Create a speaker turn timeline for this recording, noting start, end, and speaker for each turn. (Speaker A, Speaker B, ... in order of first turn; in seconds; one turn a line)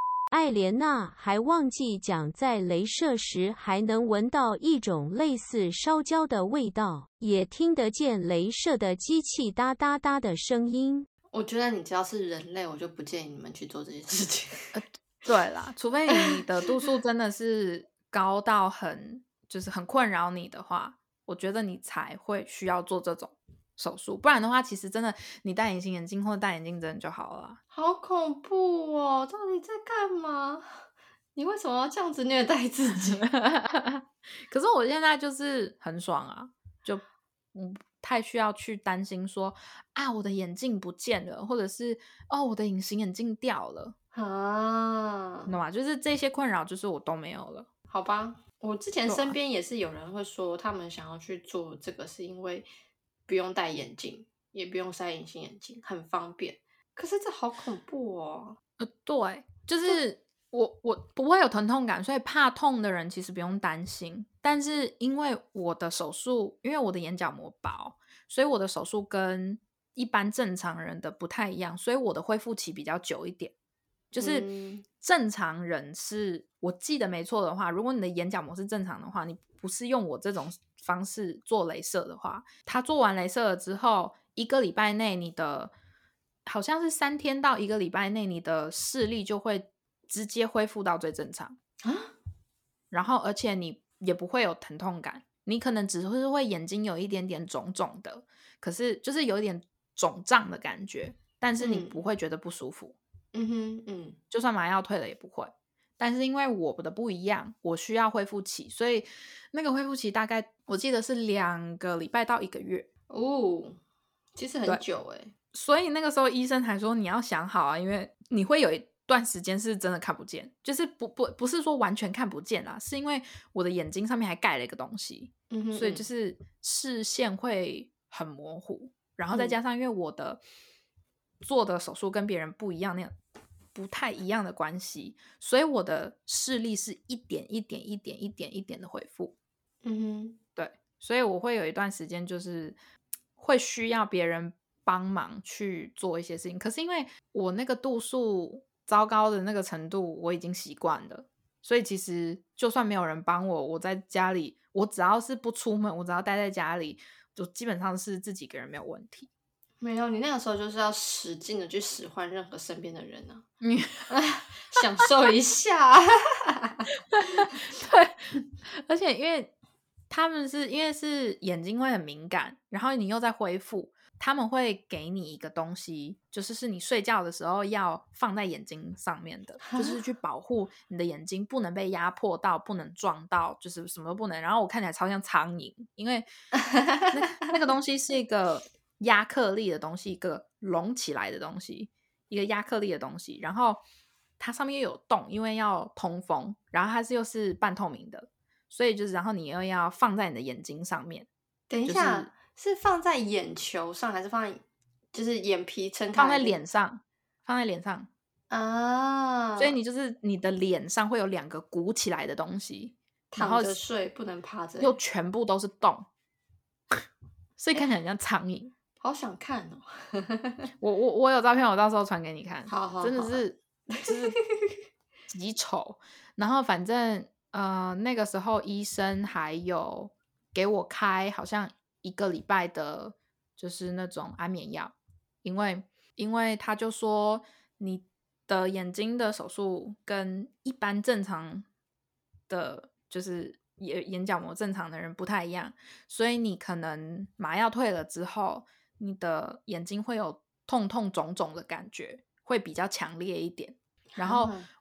Speaker A: 0.3-11.1
Speaker B: 11.3-14.8
Speaker C: 14.7-27.6
Speaker B: 27.7-33.2
Speaker C: 33.0-43.9
Speaker B: 44.1-45.5
Speaker C: 45.5-47.7
Speaker B: 47.9-52.7
Speaker C: 49.0-49.4
Speaker B: 53.3-58.6
Speaker C: 58.8-73.5
Speaker C: 74.1-74.5
Speaker B: 74.2-74.8
Speaker C: 75.0-85.7
Speaker C: 86.4-91.6
Speaker B: 91.8-92.1
Speaker C: 92.9-103.0
Speaker B: 101.6-102.0
Speaker B: 103.3-104.2
Speaker C: 104.3-112.9
Speaker B: 113.1-113.8
Speaker B: 114.3-115.3
Speaker C: 115.5-130.4
Speaker B: 125.5-126.0
Speaker B: 129.3-129.6
Speaker C: 131.4-133.2
Speaker C: 133.7-139.3
Speaker B: 139.8-140.4
Speaker C: 140.6-142.8
Speaker C: 143.4-159.3
Speaker B: 159.8-163.4
Speaker C: 163.6-164.1
Speaker B: 164.1-166.9
Speaker C: 167.1-169.5
Speaker C: 170.1-186.3
Speaker B: 186.6-187.1
Speaker C: 187.1-193.8
Speaker C: 194.4-201.3
Speaker B: 201.7-206.6
Speaker C: 201.8-202.3
Speaker C: 206.1-208.1
Speaker B: 208.5-209.8
Speaker C: 209.6-213.8
Speaker B: 213.3-214.9
Speaker C: 214.8-216.1
Speaker C: 217.6-218.7
Speaker B: 219.0-220.7
Speaker C: 220.8-224.3
Speaker B: 222.7-224.7
Speaker C: 225.3-241.7
Speaker C: 242.5-254.5
Speaker B: 254.2-254.7